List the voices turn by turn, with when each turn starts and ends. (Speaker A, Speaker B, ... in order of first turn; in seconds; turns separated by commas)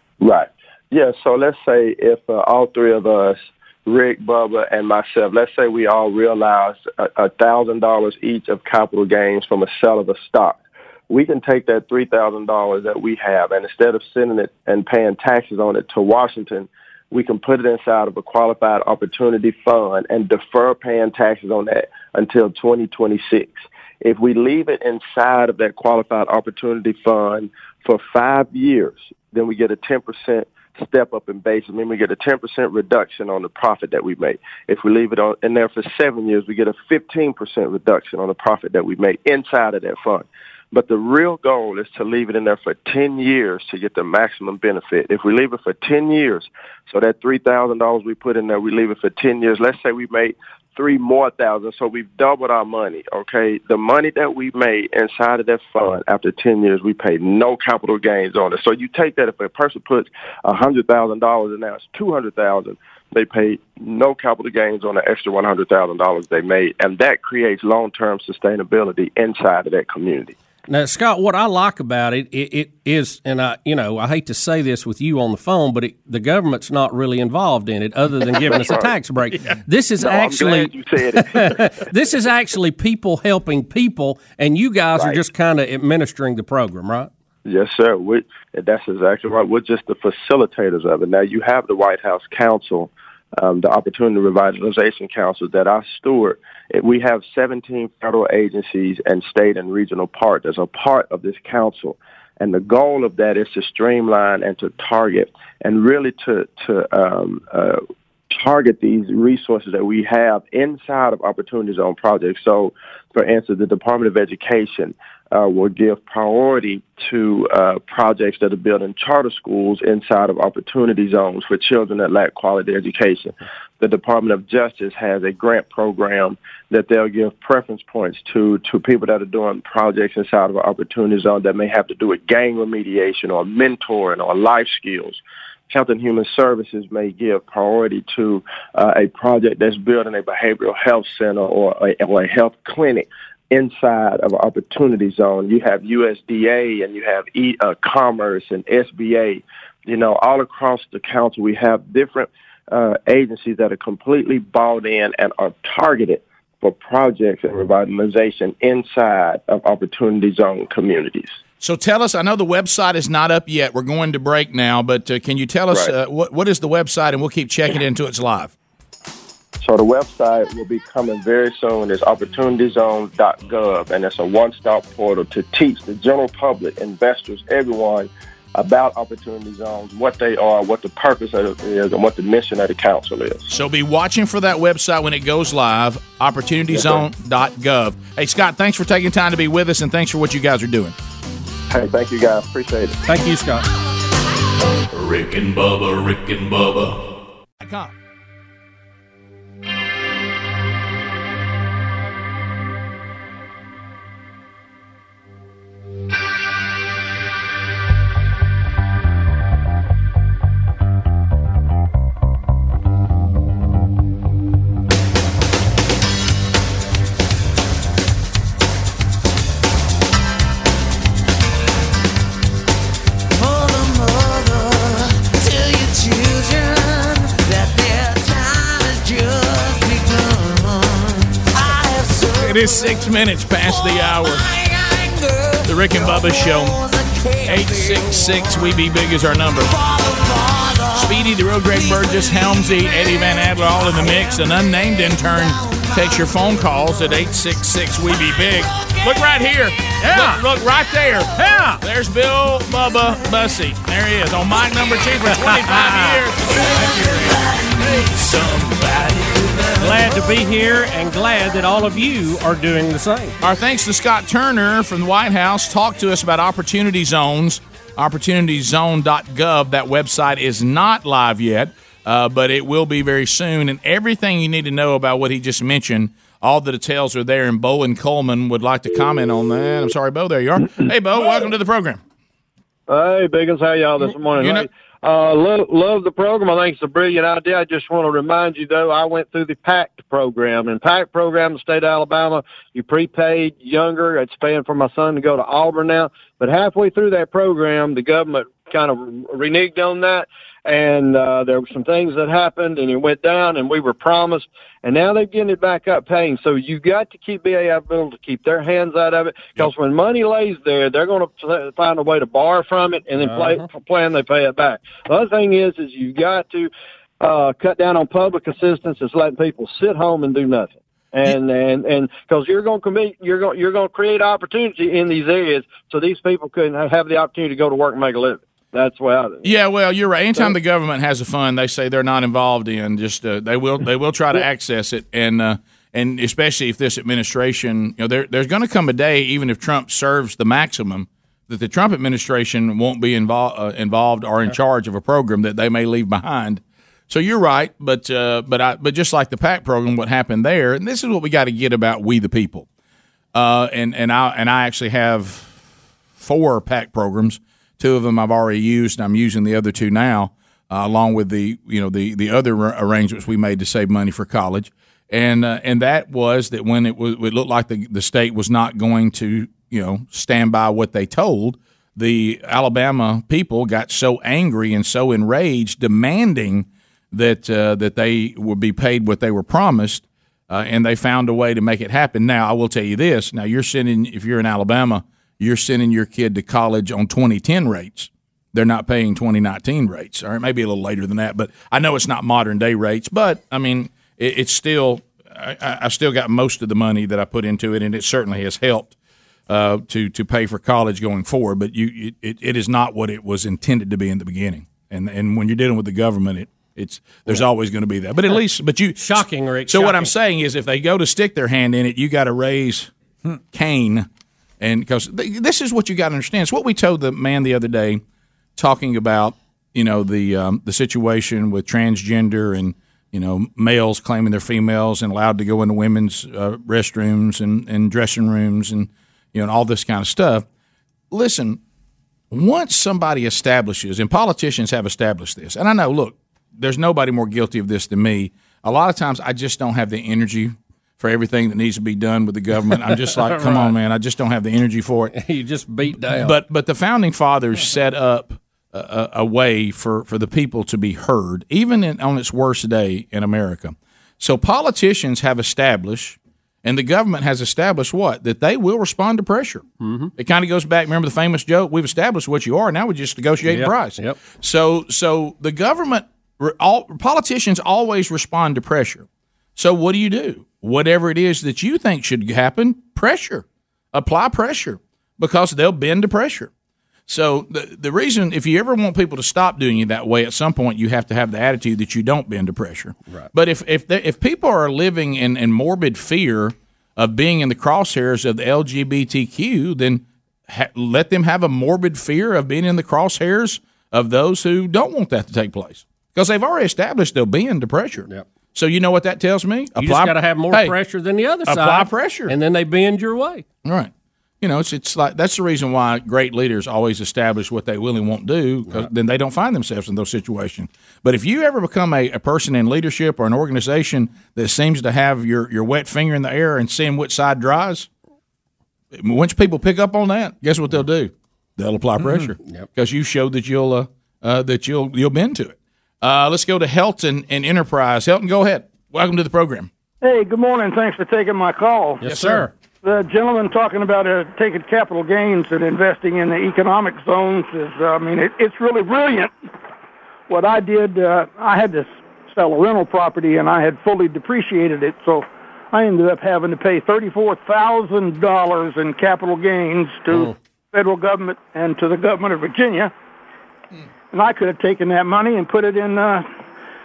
Speaker A: 0.2-70.3, Speaker B: 70.7-87.1, Speaker A: 78.3-78.9, Speaker A: 80.0-81.7, Speaker A: 84.9-85.2, Speaker A: 87.4-161.4, Speaker C: 161.6-168.5, Speaker A: 169.6-183.4, Speaker C: 183.5-190.9, Speaker A: 186.7-187.1, Speaker A: 191.7-193.0, Speaker B: 193.1-193.6, Speaker D: 194.9-197.0, Speaker C: 197.6-197.9, Speaker E: 223.3-233.1, Speaker C: 232.4-234.4, Speaker E: 233.6-238.8, Speaker C: 235.6-236.8, Speaker C: 237.4-239.7, Speaker E: 239.6-247.4, Speaker C: 240.9-257.1, Speaker E: 248.1-249.6, Speaker B: 251.4-251.8, Speaker E: 252.9-253.3, Speaker B: 255.3-256.2, Speaker E: 256.4-260.1, Speaker C: 257.9-258.6, Speaker B: 259.8-263.4, Speaker C: 263.4-282.0, Speaker F: 282.9-316.7, Speaker C: 284.3-284.7, Speaker B: 313.2-313.6, Speaker F: 317.2-329.5, Speaker C: 329.4-352.6, Speaker C: 353.3-355.6, Speaker C: 356.2-398.9, Speaker C: 399.5-414.1, Speaker B: 409.0-410.1, Speaker C: 414.6-418.0, Speaker C: 418.6-430.4, Speaker C: 431.1-431.6, Speaker C: 432.3-445.1, Speaker B: 443.1-443.7, Speaker B: 445.1-446.3, Speaker C: 446.0-459.6, Speaker B: 459.8-460.1, Speaker C: 460.2-476.5, Speaker B: 463.4-464.2, Speaker C: 477.1-500.7, Speaker B: 499.8-503.4, Speaker C: 501.5-502.3, Speaker C: 503.6-517.9, Speaker C: 518.9-529.7, Speaker G: 530.0-532.0, Speaker B: 532.0-532.5, Speaker C: 532.0-532.5, Speaker G: 532.8-539.3, Speaker G: 540.3-552.9, Speaker G: 554.1-556.3